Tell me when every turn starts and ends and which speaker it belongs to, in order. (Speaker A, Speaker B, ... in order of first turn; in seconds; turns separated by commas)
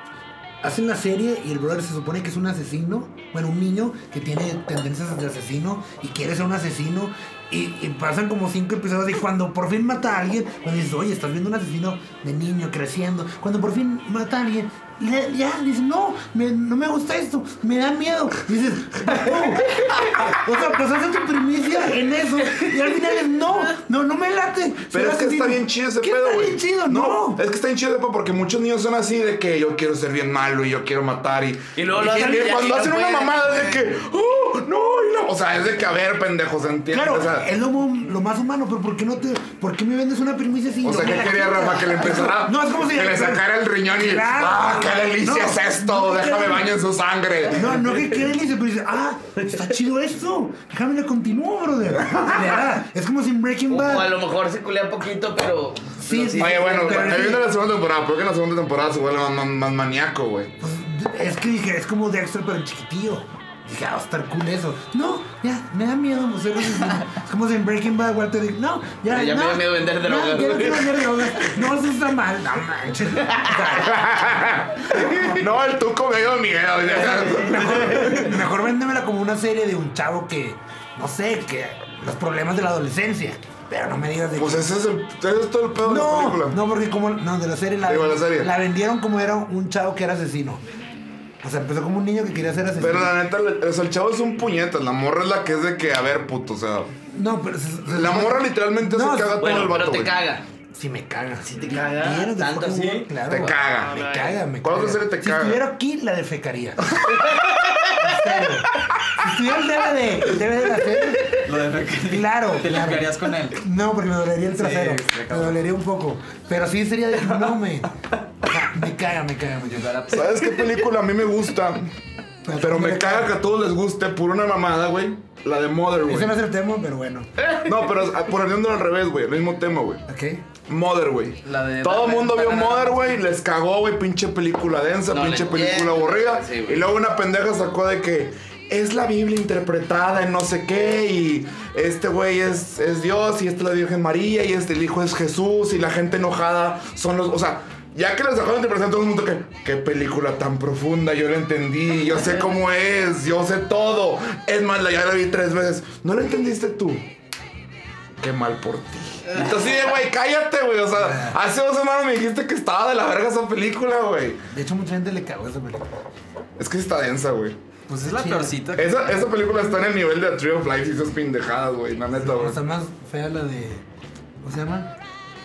Speaker A: 0.6-27.4, Speaker B: 24.9-37.5, Speaker C: 31.8-33.9, Speaker A: 32.0-32.5, Speaker A: 36.9-46.7, Speaker B: 40.8-47.8, Speaker A: 47.5-54.1, Speaker C: 53.7-57.4, Speaker A: 56.0-57.5, Speaker B: 56.4-60.5, Speaker A: 60.6-74.1, Speaker C: 69.1-71.5, Speaker C: 73.2-73.8, Speaker B: 73.8-78.3, Speaker A: 74.9-75.4, Speaker A: 76.9-84.7, Speaker C: 77.1-78.2, Speaker B: 84.3-86.6, Speaker A: 85.8-90.6, Speaker B: 87.8-88.5, Speaker A: 91.4-93.2, Speaker B: 92.8-96.9, Speaker A: 97.1-99.7, Speaker B: 97.9-100.2, Speaker C: 99.4-100.4, Speaker A: 100.7-107.2, Speaker C: 101.4-104.4, Speaker B: 103.3-104.0, Speaker B: 104.6-105.6, Speaker C: 107.0-108.3, Speaker A: 108.0-111.4, Speaker D: 111.3-113.6, Speaker A: 112.0-119.9, Speaker D: 114.5-115.6, Speaker D: 119.6-120.4, Speaker B: 120.1-121.9, Speaker A: 122.4-123.3, Speaker B: 122.6-126.3, Speaker A: 126.0-127.3, Speaker C: 127.4-127.7, Speaker B: 127.6-130.0, Speaker A: 130.1-130.4, Speaker B: 130.7-157.1, Speaker D: 131.4-133.2, Speaker C: 135.1-136.8, Speaker B: 158.2-164.4, Speaker A: 160.9-161.3, Speaker A: 164.5-165.9, Speaker B: 166.6-167.6, Speaker D: 167.9-169.2, Speaker A: 168.1-168.6, Speaker B: 168.7-172.6, Speaker A: 172.2-173.8, Speaker A: 174.4-174.9